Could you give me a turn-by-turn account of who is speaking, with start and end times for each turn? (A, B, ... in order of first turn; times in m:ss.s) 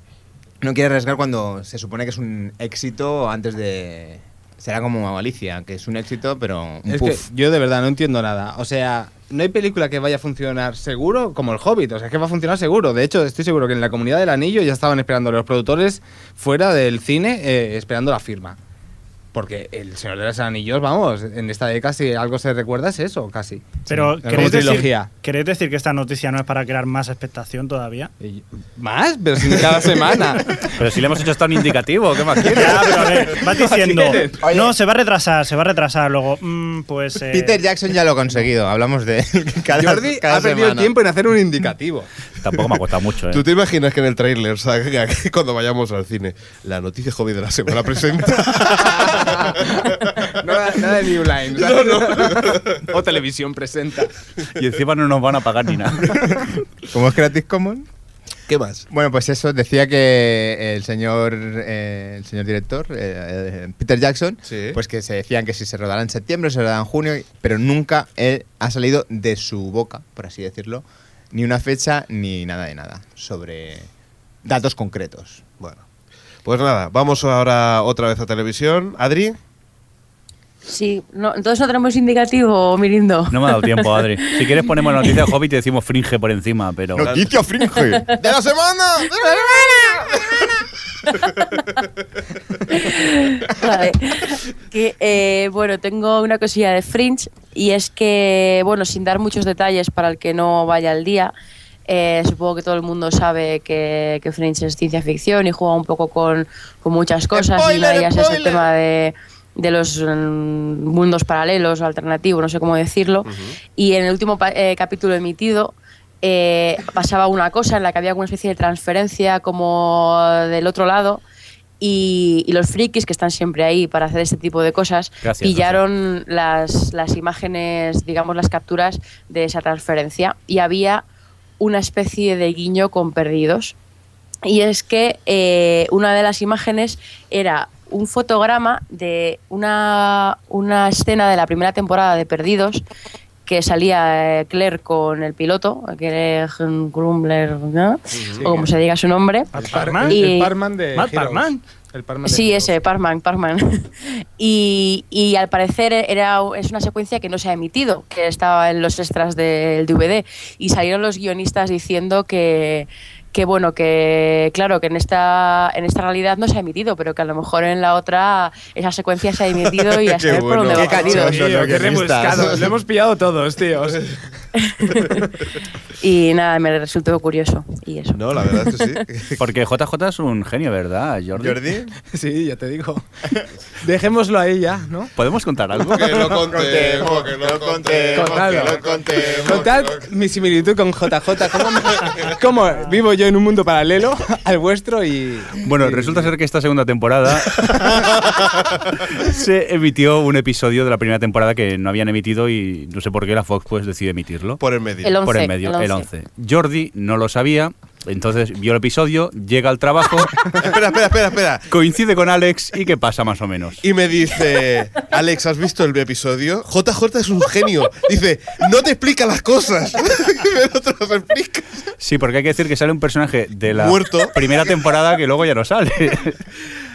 0:00.6-0:07.2 A
0:06.9-0:18.6 B
0:19.3-0:25.1 B
0:23.9-0:28.1 C
0:28.2-0:30.7 B
0:30.8-0:33.0 D
0:32.4-0:34.5 B
0:32.5-0:37.6 C
0:34.4-0:34.7 A
0:37.3-0:40.9 A
0:39.8-0:42.1 B
0:42.4-0:43.4 D
0:43.3-0:50.3 E
0:49.1-0:54.1 B
0:51.5-0:52.9 E
0:54.5-0:56.3 D
0:56.9-0:57.9 A
0:58.5-0:58.8 E
0:58.9-1:13.9 A
1:04.5-1:04.8 E
1:14.4-1:15.4 A
1:16.4-1:19.4 E
1:20.7-1:25.1 F
1:23.3-1:27.1 D
1:27.0-1:27.3 E
1:27.0-1:30.3 A
1:28.2-1:30.3 E
1:32.7-1:41.3 F
1:41.9-2:01.2 F
1:47.4-1:48.6 E
1:47.6-1:48.2 A
1:53.3-1:53.6 E
2:01.8-2:11.0 F
2:05.2-2:05.8 D
2:11.6-2:13.7 F
2:14.4-2:22.8 F
2:23.4-2:30.5 F
2:28.1-2:28.5 E
2:29.5-2:30.2 C
2:29.6-2:32.8 B
2:30.9-2:31.6 C
2:32.2-2:51.4 F
2:49.8-2:51.8 E
2:50.7-2:52.7 A
2:51.0-2:54.2 B
2:54.6-2:55.2 F
2:56.0-2:58.8 F
2:58.1-2:59.4 E
2:59.4-3:01.6 D
3:01.4-3:01.9 A
3:02.0-3:03.0 B
3:03.8-3:05.1 B
3:05.2-3:06.3 D
3:05.9-3:10.0 E
3:06.4-3:09.8 A
3:08.1-3:08.8 B
3:09.4-3:16.3 B
3:15.6-3:24.6 D
3:24.6-3:25.2 E
3:25.0-3:26.1 F
3:25.2-3:30.3 D
3:30.5-3:31.7 E
3:31.7-3:33.8 D
3:33.8-3:41.9 E
3:42.0-3:46.4 D
3:43.7-3:44.7 E